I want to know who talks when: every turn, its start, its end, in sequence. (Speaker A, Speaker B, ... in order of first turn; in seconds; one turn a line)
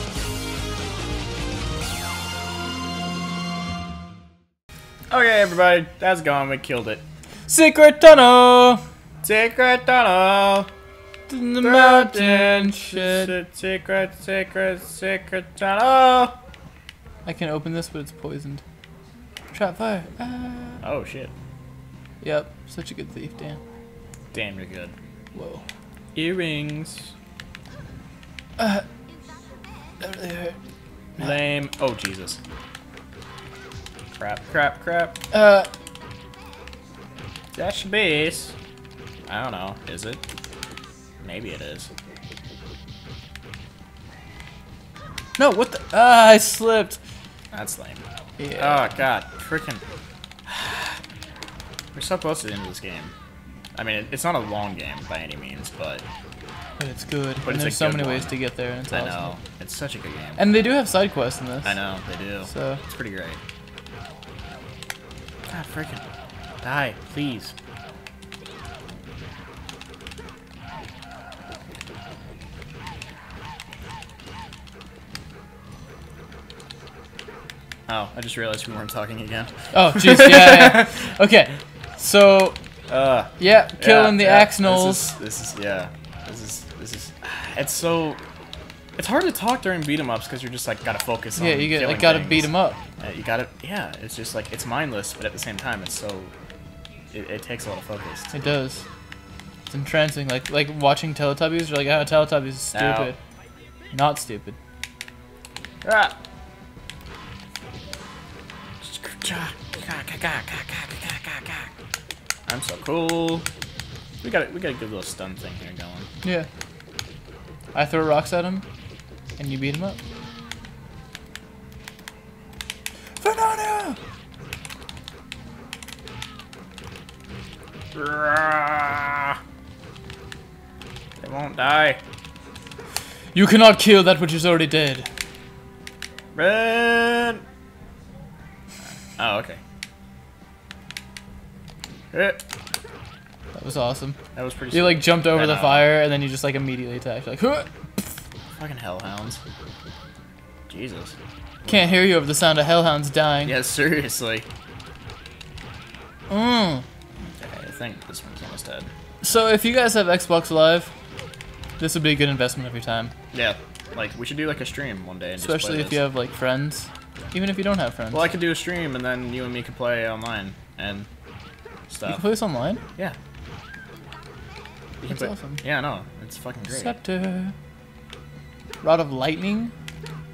Speaker A: 5.1-7.0
Speaker B: 7.5-8.8
Speaker A: 9.2-10.7
Speaker B: 11.3-13.3
Speaker A: 11.6-16.4
Speaker B: 17.2-18.6
Speaker B: 19.5-20.8
Speaker A: 20.8-21.3
Speaker B: 22.2-23.6
Speaker A: 24.3-24.9
Speaker B: 25.3-25.6
Speaker A: 26.1-27.1
Speaker B: 28.6-28.8
Speaker B: 30.0-30.6
Speaker A: 31.2-32.4
Speaker A: 34.2-35.2
Speaker B: 35.3-35.7
Speaker A: 37.5-38.5
Speaker A: 39.3-40.2
Speaker A: 41.2-41.9
Speaker B: 45.4-47.0
Speaker A: 47.5-48.0
Speaker B: 48.4-48.9
Speaker A: 48.6-49.8
Speaker A: 50.5-51.0
Speaker A: 51.9-53.1
Speaker A: 53.7-56.0
Speaker B: 56.8-59.3
Speaker A: 57.4-58.3
Speaker A: 58.9-60.4
Speaker B: 60.4-61.8
Speaker A: 61.6-63.4
Speaker B: 62.5-62.8
Speaker A: 65.5-66.0
Speaker A: 66.6-67.5
Speaker A: 77.9-81.0
Speaker B: 79.7-82.6
Speaker A: 82.9-88.2
Speaker B: 83.4-85.1
Speaker A: 89.0-92.5
Speaker B: 91.4-92.8
Speaker A: 93.0-96.3
Speaker A: 97.1-98.3
Speaker B: 98.3-98.8
Speaker B: 99.7-103.2
Speaker A: 102.7-103.1
Speaker B: 103.9-104.5
Speaker A: 105.8-106.1
Speaker A: 108.8-111.7
Speaker A: 112.5-113.5
Speaker A: 114.2-116.1
Speaker B: 116.2-116.5
Speaker B: 117.7-118.6
Speaker B: 119.4-120.0
Speaker B: 123.2-124.0
Speaker A: 127.9-129.4
Speaker A: 131.2-132.0
Speaker B: 133.3-135.1
Speaker A: 136.3-137.4
Speaker A: 139.2-139.6
Speaker A: 142.1-142.4
Speaker B: 143.5-144.2
Speaker A: 144.3-146.0
Speaker B: 144.7-148.2
Speaker A: 148.5-149.4
Speaker A: 150.7-151.9
Speaker B: 151.7-153.6
Speaker A: 153.4-154.5
Speaker B: 156.3-156.8
Speaker A: 157.4-158.9
Speaker B: 159.2-160.9
Speaker B: 161.8-163.1
Speaker A: 163.3-166.0
Speaker B: 165.4-168.3
Speaker A: 168.1-171.1
Speaker A: 171.9-172.2
Speaker B: 172.1-172.8
Speaker A: 175.0-176.9
Speaker B: 175.1-175.6
Speaker B: 176.7-177.5
Speaker B: 178.8-179.7